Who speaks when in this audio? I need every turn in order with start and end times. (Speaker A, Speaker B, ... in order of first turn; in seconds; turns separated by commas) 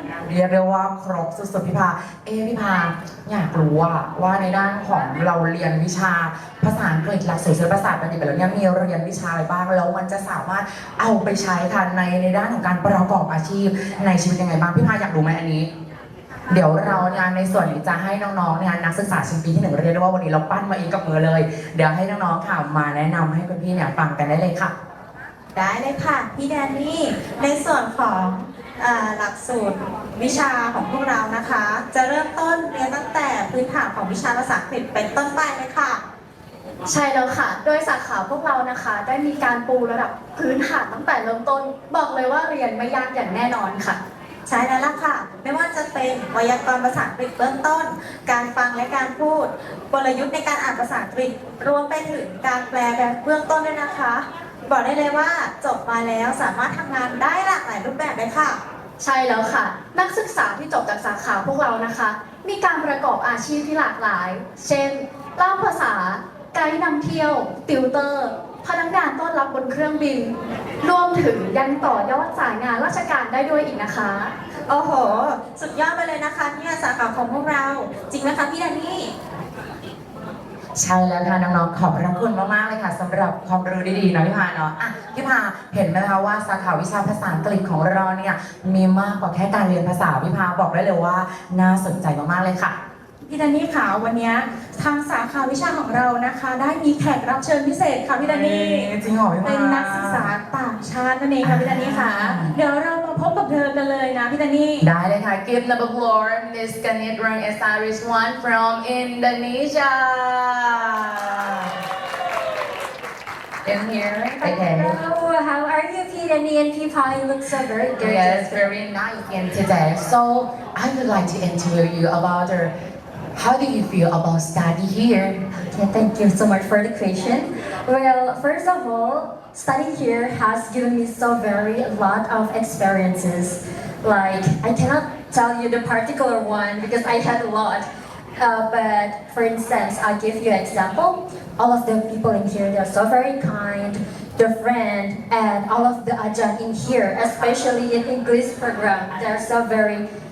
Speaker A: 0.2-15.7, Speaker A: 16.5-24.7, Speaker B: 25.5-36.0, Speaker C: 36.9-44.0, Speaker B: 44.5-58.6, Speaker C: 59.0-74.3, Speaker B: 74.7-79.1, Speaker A: 80.8-92.8, Speaker D: 93.2-98.9, Speaker A: 98.2-100.3, Speaker D: 99.4-104.9, Speaker A: 101.4-102.6, Speaker A: 104.8-111.8, Speaker A: 113.6-115.0, Speaker E: 114.4-118.7, Speaker A: 118.0-122.7, Speaker A: 123.3-125.5, Speaker E: 125.7-137.9, Speaker E: 138.4-150.0